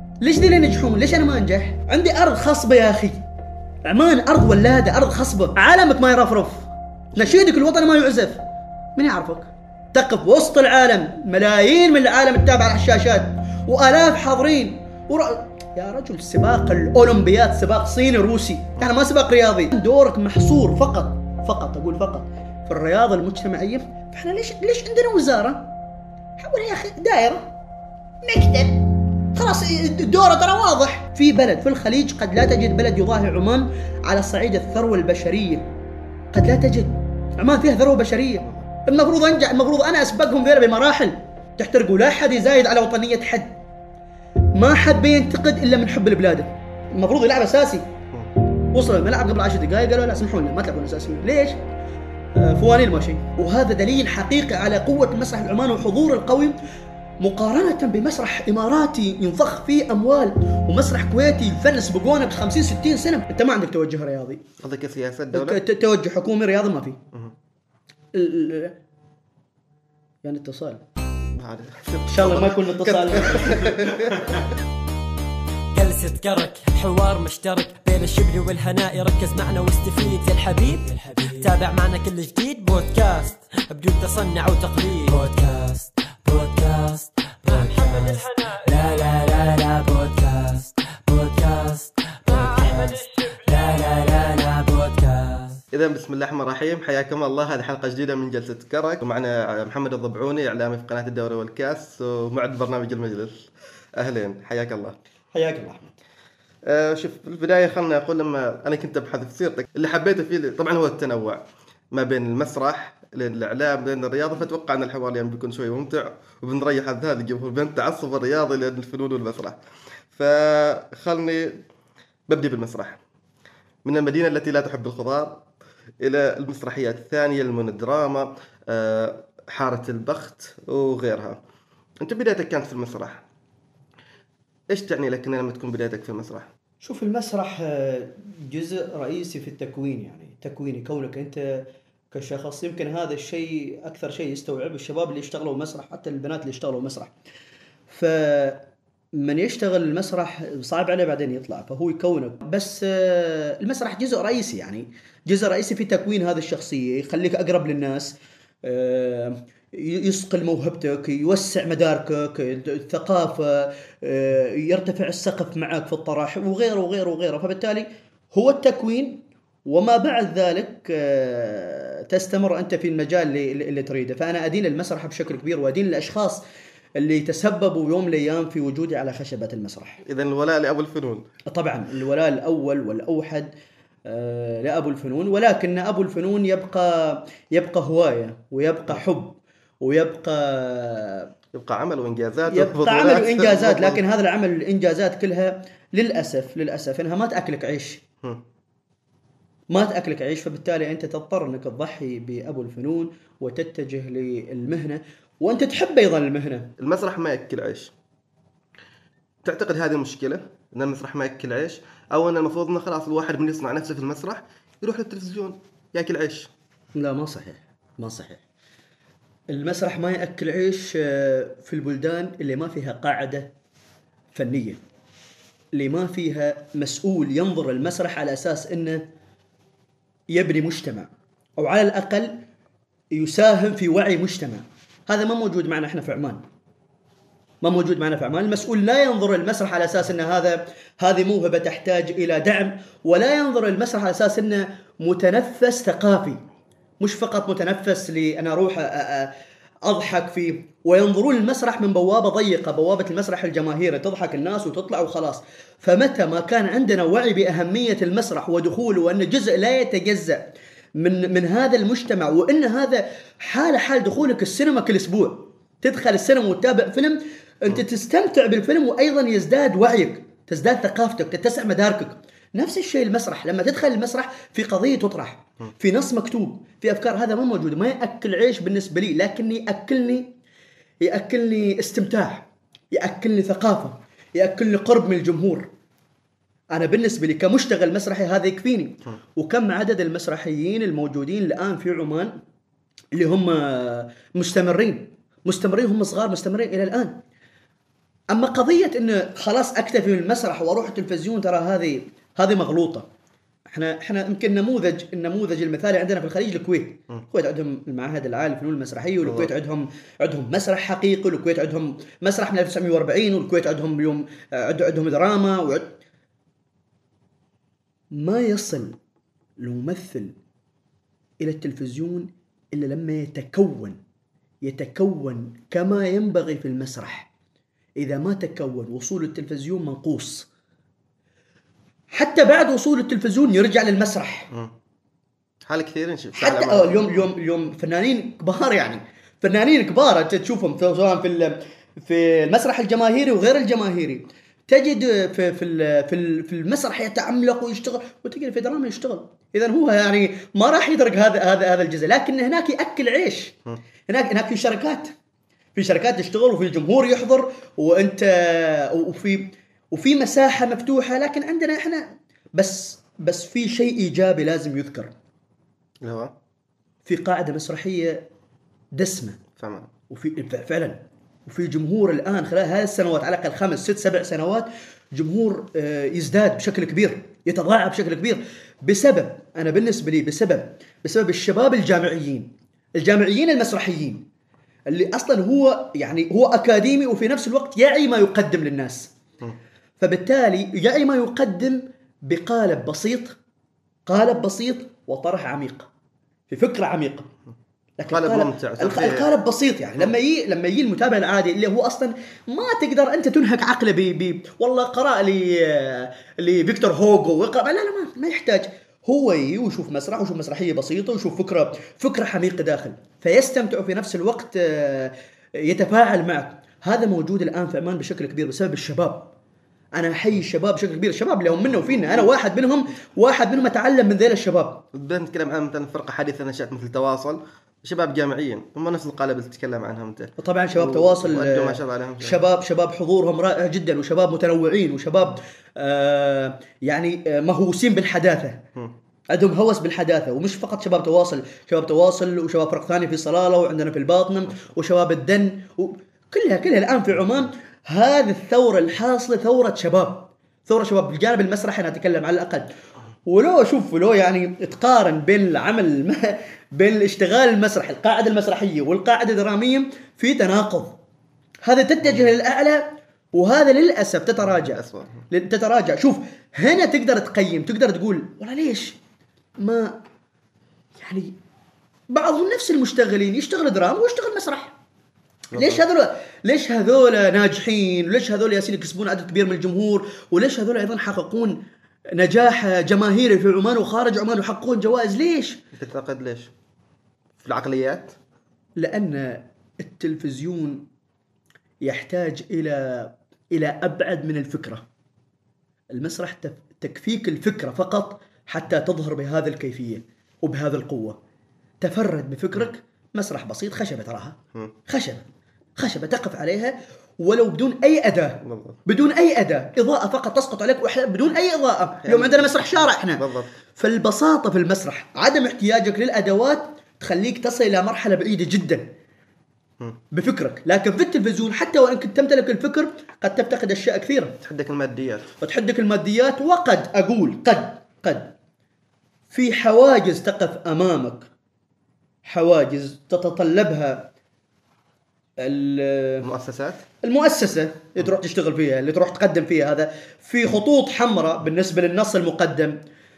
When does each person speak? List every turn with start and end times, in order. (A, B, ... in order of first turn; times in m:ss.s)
0:00.2-0:03.2 A
0:03.8-0:08.4 A
0:09.0-0:25.7 A
0:26.4-0:27.5 A
0:28.2-0:35.7 A
0:36.3-0:43.6 A
0:44.6-0:47.9 A
0:48.7-0:51.6 A
0:52.4-0:56.6 A
0:57.2-1:04.4 A
1:04.6-1:05.6 B
1:05.3-1:07.0 A
1:08.1-1:08.8 A
1:10.2-1:10.8 A
1:11.3-1:14.4 B
1:12.1-1:13.9 A
1:15.7-1:35.6 C
1:35.7-1:43.4 B
1:44.0-1:45.0 B
1:45.3-1:45.9 A
1:46.7-1:51.4 B
1:51.9-1:59.6 B
2:00.1-2:01.6 B
2:02.3-2:03.0 B
2:03.8-2:05.5 B
2:06.0-2:11.4 B
2:12.0-2:13.2 B
2:14.7-2:16.5 B
2:16.8-2:27.1 A
2:27.9-2:28.6 A
2:29.2-2:56.4 A
2:57.0-3:00.0 A
3:00.1-3:01.2 B
3:01.5-3:03.5 A
3:04.1-3:11.3 A
3:11.5-3:14.0 B
3:12.5-3:18.0 A
3:19.7-3:26.7 A
3:26.8-3:27.9 B
3:29.4-3:36.5 B
3:37.0-3:38.4 A
3:39.5-3:43.5 A
3:44.3-3:44.8 A
3:45.7-3:49.1 A
3:50.3-3:52.4 A
3:53.1-3:56.4 A
3:57.6-4:06.4 A
4:07.0-4:09.3 A
4:09.8-4:20.5 A
4:21.0-4:40.3 A
4:41.0-4:45.7 A
4:46.7-4:52.4 A
4:53.1-4:57.2 A
4:58.3-5:03.1 A
5:03.7-5:16.0 A
5:09.2-5:09.5 B
5:18.2-5:19.0 A
5:19.6-5:20.4 A
5:21.4-5:24.0 A
5:24.6-5:27.3 A
5:28.0-5:30.5 A
5:32.1-5:34.5 A
5:35.6-5:37.3 B
5:36.4-5:53.6 A
5:54.1-5:55.1 A
5:55.8-6:05.1 A
6:06.0-6:06.3 B
6:07.0-6:08.3 A
6:08.9-6:09.4 A
6:09.6-6:09.9 B
6:10.1-6:24.3 A
6:24.9-6:29.1 A
6:30.0-6:33.4 A
6:34.1-6:35.9 A
6:36.5-6:37.3 A
6:38.0-6:59.3 A
6:38.1-6:39.3 B
7:00.0-7:04.8 A
7:04.9-7:12.4 B
7:10.4-7:18.6 A
7:19.3-7:32.7 A
7:33.3-7:41.0 A
7:41.6-7:49.0 A
7:44.6-7:45.2 B
7:49.6-7:50.0 A
7:51.0-7:51.4 A
7:52.1-7:54.8 A
7:55.5-7:55.8 B
7:55.5-8:01.6 A
8:02.2-8:05.6 A
8:05.7-8:06.5 B
8:07.4-8:08.2 B
8:08.8-8:10.9 A
8:11.8-8:14.8 A
8:15.9-8:21.2 A
8:21.8-8:25.3 A
8:25.8-8:33.2 A
8:28.4-8:28.8 B
8:32.0-8:33.5 B
8:33.8-8:38.9 A
8:40.1-8:44.4 A
8:44.4-8:45.3 B
8:45.4-8:48.3 A
8:49.3-8:51.3 A
8:52.2-8:54.1 A
8:55.4-8:56.3 A
8:56.2-8:56.8 B
8:57.0-9:02.8 A